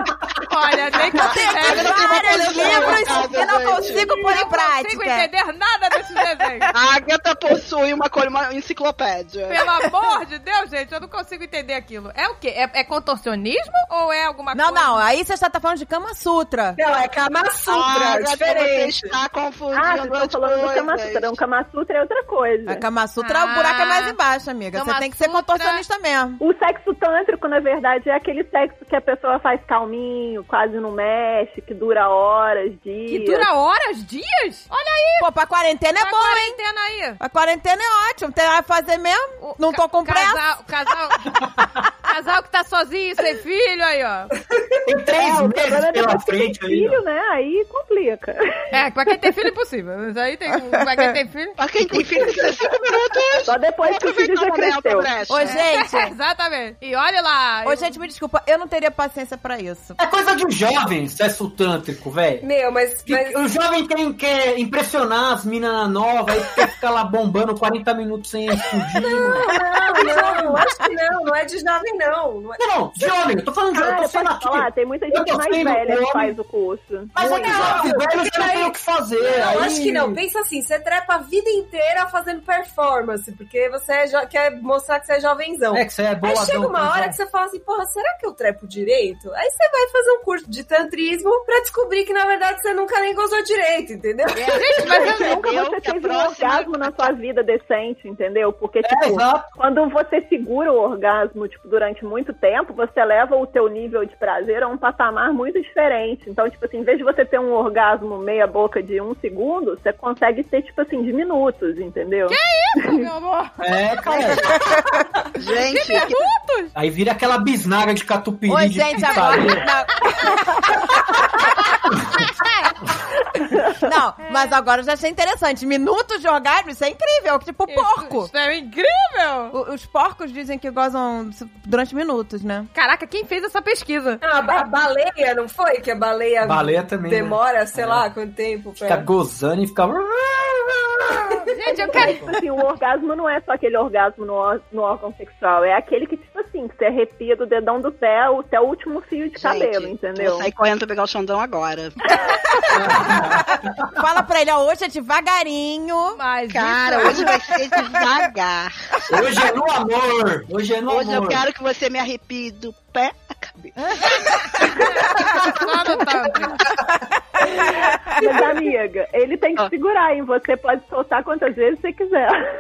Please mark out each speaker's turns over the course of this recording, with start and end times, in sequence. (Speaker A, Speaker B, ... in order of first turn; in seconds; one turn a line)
Speaker A: 0.5-3.1
Speaker B: 1.1-5.3
Speaker C: 1.1-4.1
Speaker A: 4.0-6.7
Speaker C: 6.7-9.6
Speaker A: 9.5-15.0
Speaker B: 14.5-16.8
Speaker D: 16.8-19.1
Speaker C: 17.7-21.4
Speaker E: 19.7-22.8
Speaker B: 22.7-26.4
Speaker A: 23.2-24.2
Speaker A: 24.7-25.8
Speaker E: 26.4-33.5
Speaker A: 33.1-35.3
Speaker B: 35.2-36.6
Speaker A: 36.0-37.2
Speaker B: 37.2-40.4
Speaker A: 39.4-41.4
Speaker F: 41.4-41.8
Speaker A: 42.1-44.4
Speaker F: 44.9-47.0
Speaker E: 45.1-48.4
Speaker A: 48.7-51.6
Speaker B: 50.8-51.1
Speaker C: 51.6-55.6
Speaker E: 53.5-55.1
Speaker B: 55.3-56.1
Speaker A: 55.4-58.0
Speaker B: 57.6-60.0
Speaker F: 60.0-62.4
Speaker D: 62.4-63.4
Speaker F: 63.1-69.5
Speaker D: 69.0-73.1
Speaker B: 69.9-70.9
Speaker F: 72.6-76.3
Speaker E: 73.7-77.8
Speaker F: 77.2-80.2
Speaker D: 77.2-95.1
Speaker F: 85.7-87.2
Speaker C: 94.3-97.1
Speaker A: 94.5-95.4
Speaker E: 94.9-112.4
Speaker F: 98.8-99.5
Speaker A: 112.3-113.5
Speaker F: 113.6-114.5
Speaker C: 115.4-116.2
Speaker A: 115.5-116.7
Speaker F: 116.8-119.7
Speaker B: 118.5-120.7
Speaker A: 122.5-122.7
Speaker B: 123.8-128.3
Speaker A: 124.3-124.5
Speaker A: 127.7-129.6
Speaker B: 129.5-132.7
Speaker A: 132.7-134.2
Speaker D: 134.2-139.1
Speaker F: 136.4-138.1
Speaker F: 138.8-141.4
Speaker A: 141.5-142.3
Speaker E: 141.7-150.5
Speaker F: 142.0-142.3
Speaker C: 149.4-152.0
Speaker F: 152.7-154.0
Speaker B: 153.1-156.2
Speaker A: 156.1-157.4
Speaker C: 156.5-159.2
Speaker B: 157.1-158.0
Speaker F: 159.1-161.4
Speaker C: 160.9-165.7
Speaker A: 163.8-166.6
Speaker E: 168.1-172.4